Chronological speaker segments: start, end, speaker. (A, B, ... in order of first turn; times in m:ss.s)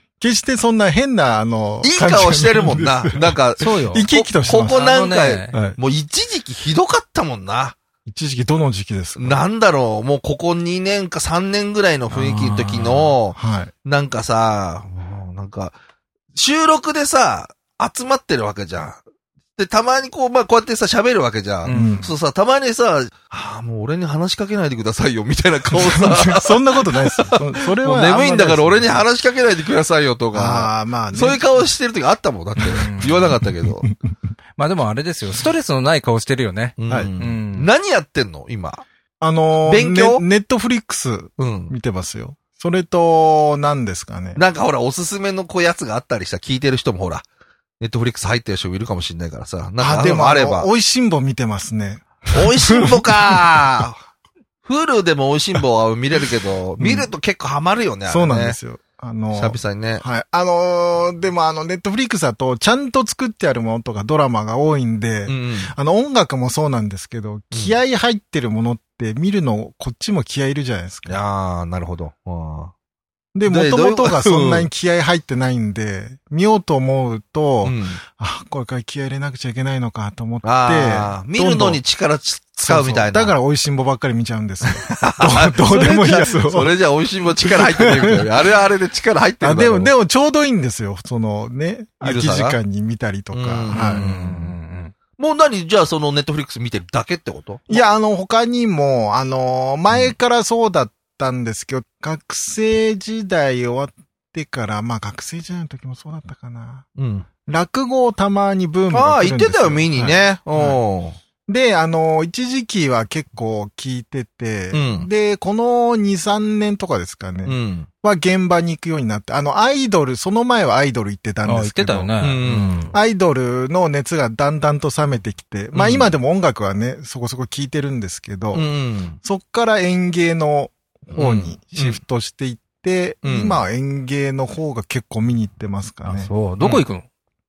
0:00.2-0:04.8 A
0:01.8-0:07.8 B
0:03.6-0:05.6 C
0:05.5-0:05.8 A
0:08.0-0:09.4 A
0:09.2-0:15.8 B
0:12.1-0:13.2 C
0:13.3-0:13.7 A
0:16.3-0:19.0 B
0:19.6-0:33.9 B
0:21.6-0:22.0 C
0:21.7-0:22.1 A
0:25.7-0:29.0 A
0:30.3-0:31.4 A
0:32.6-0:32.9 A
0:32.7-0:33.3 C
0:34.6-0:37.7 C
0:36.8-0:38.8 B
0:39.2-0:44.4 A
0:39.6-0:40.2 B
0:41.4-0:41.7 B
0:44.3-0:47.2 B
0:47.8-0:50.7 B
0:49.8-0:53.8 A
0:52.3-0:54.0 B
0:54.6-0:58.6 B
0:56.8-0:57.1 A
0:58.1-1:11.2 A
0:59.3-1:00.0 B
1:05.2-1:05.7 B
1:11.1-1:12.7 B
1:13.3-1:21.8 A
1:13.5-1:14.7 B
1:17.6-1:18.0 B
1:20.4-1:23.4 B
1:22.6-1:26.7 A
1:24.8-1:29.9 B
1:27.4-1:28.2 A
1:29.4-1:34.0 A
1:32.0-1:32.6 B
1:33.3-1:34.5 B
1:33.7-1:34.9 C
1:35.2-1:37.8 B
1:37.7-1:46.8 A
1:47.0-1:47.2 B
1:47.5-1:50.8 A
1:48.9-1:51.2 B
1:51.5-2:02.1 A
1:54.7-1:55.1 B
1:57.4-1:57.9 B
2:01.4-2:02.9 C
2:02.2-2:02.8 B
2:02.9-2:08.7 A
2:05.7-2:06.1 B
2:08.5-2:09.2 B
2:09.2-2:16.3 A
2:11.1-2:12.0 B
2:13.2-2:13.6 B
2:16.0-2:17.0 C